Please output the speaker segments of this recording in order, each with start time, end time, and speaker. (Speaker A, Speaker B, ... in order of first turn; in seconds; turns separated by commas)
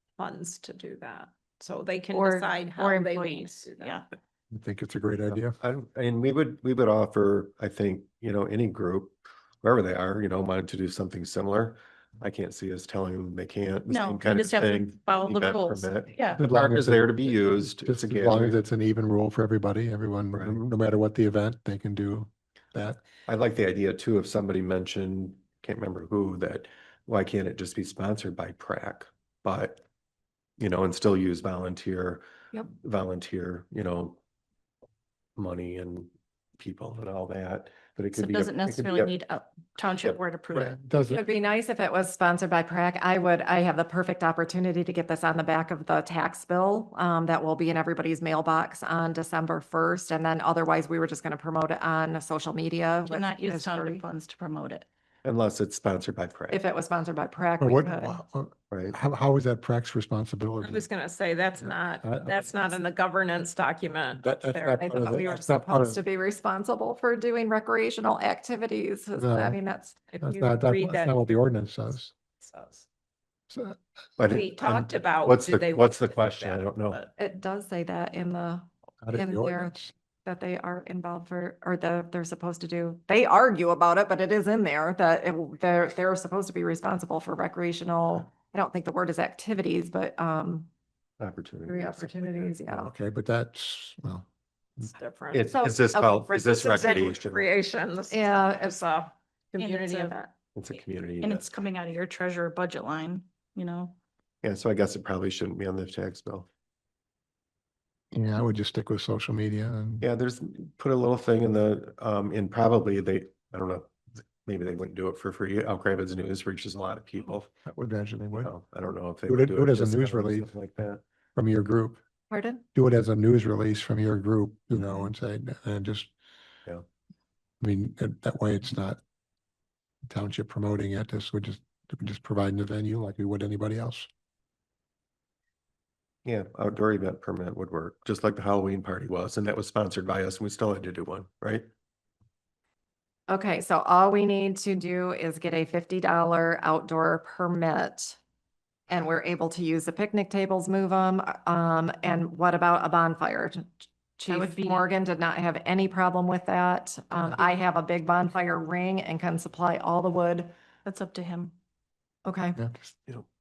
Speaker A: 0.2-4.0, Speaker B: 2.1-4.0, Speaker C: 4.5-5.6, Speaker D: 5.3-18.6, Speaker B: 13.9-16.4, Speaker C: 16.4-23.0, Speaker D: 20.3-20.6, Speaker D: 23.3-29.8, Speaker D: 30.6-34.2, Speaker D: 35.4-39.1, Speaker B: 38.1-40.8, Speaker C: 40.5-41.2, Speaker E: 41.1-54.0, Speaker B: 53.1-54.9, Speaker D: 55.2-56.6, Speaker E: 56.5-58.2, Speaker C: 57.6-60.9, Speaker D: 58.7-59.0, Speaker A: 60.6-65.2, Speaker C: 61.6-62.5, Speaker C: 64.2-66.0, Speaker E: 64.8-70.1, Speaker C: 69.2-69.6, Speaker A: 70.1-71.2, Speaker C: 70.2-72.1, Speaker A: 72.4-72.9, Speaker C: 73.5-73.8, Speaker D: 74.2-77.0, Speaker A: 74.3-77.1, Speaker E: 77.2-90.7, Speaker C: 79.0-79.8, Speaker D: 91.2-92.1, Speaker E: 91.7-92.9, Speaker C: 92.7-94.3, Speaker A: 94.9-100.4, Speaker D: 95.3-97.5, Speaker E: 95.6-96.2, Speaker E: 98.1-98.8, Speaker B: 99.6-100.1, Speaker D: 100.5-101.5, Speaker B: 101.2-104.0, Speaker D: 104.4-106.5, Speaker C: 108.1-110.1, Speaker D: 110.0-117.5, Speaker C: 117.7-118.5, Speaker D: 118.4-121.0, Speaker C: 119.3-120.5, Speaker C: 121.3-122.0, Speaker E: 122.3-122.6, Speaker C: 122.7-126.1, Speaker C: 127.6-129.0, Speaker C: 130.1-134.1, Speaker D: 136.2-141.7, Speaker E: 143.3-148.2, Speaker E: 148.9-160.5, Speaker B: 154.3-154.9, Speaker B: 160.8-161.5, Speaker E: 162.2-162.6